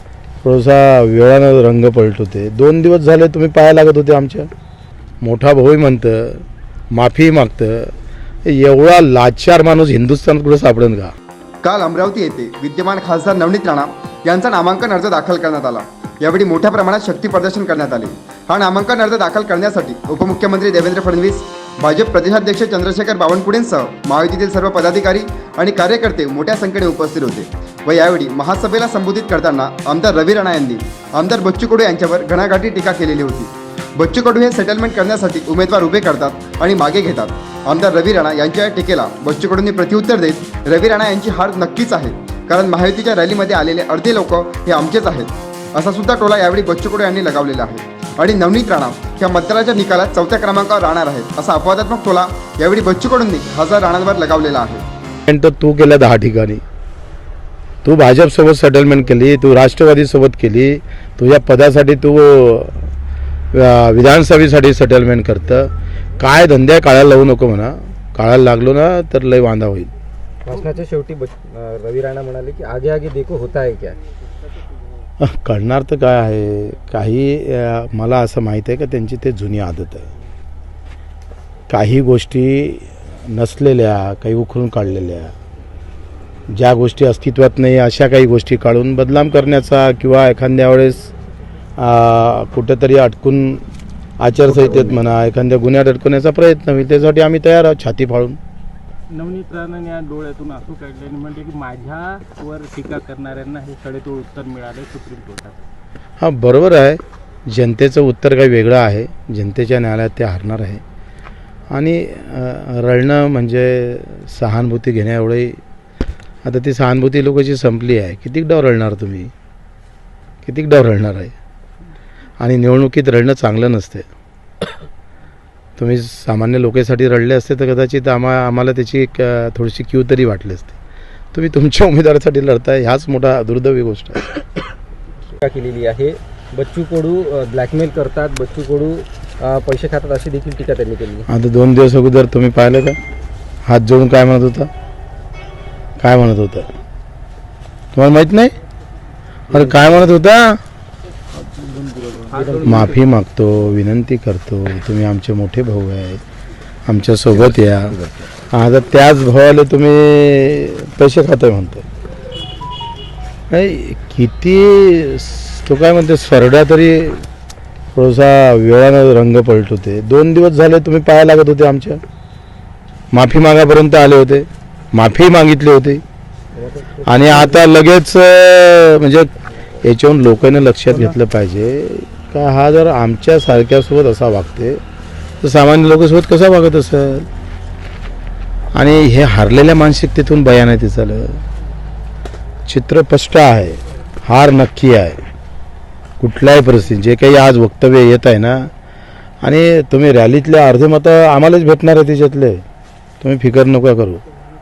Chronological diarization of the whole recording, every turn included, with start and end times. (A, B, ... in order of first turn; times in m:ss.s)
0:00.4-0:04.5 A
0:05.2-0:07.9 A
0:08.4-0:11.1 A
0:11.6-0:54.8 B
0:55.3-0:56.6 A
0:57.8-1:02.9 A
1:03.5-1:09.9 A
1:10.4-1:14.0 C
1:15.2-1:20.1 A
1:21.7-1:25.3 A
1:26.5-1:31.1 A
1:31.8-1:33.6 A
1:34.2-1:38.4 A
1:39.1-1:45.6 D
1:46.2-1:50.8 A
1:51.7-1:55.6 A
1:56.4-1:59.3 A
2:00.4-2:01.3 A
2:02.4-2:04.1 A
2:05.8-2:10.8 A
2:11.3-2:14.2 A
2:15.4-2:21.2 C
2:21.3-2:23.0 A
2:23.6-2:24.7 A
2:26.0-2:26.7 A
2:27.9-2:28.5 A
2:29.5-2:30.6 A
2:31.4-2:33.0 D
2:32.6-2:36.2 A
2:36.9-2:41.8 A
2:43.5-2:47.2 A
2:47.9-2:52.0 A
2:53.1-2:56.0 A
2:56.6-2:57.6 C
2:57.0-2:59.3 A
2:59.8-3:04.8 A
3:05.4-3:07.3 A
3:08.7-3:11.4 A
3:12.7-3:15.2 A
3:16.2-3:18.7 A
3:19.4-3:22.6 A
3:23.2-3:24.2 A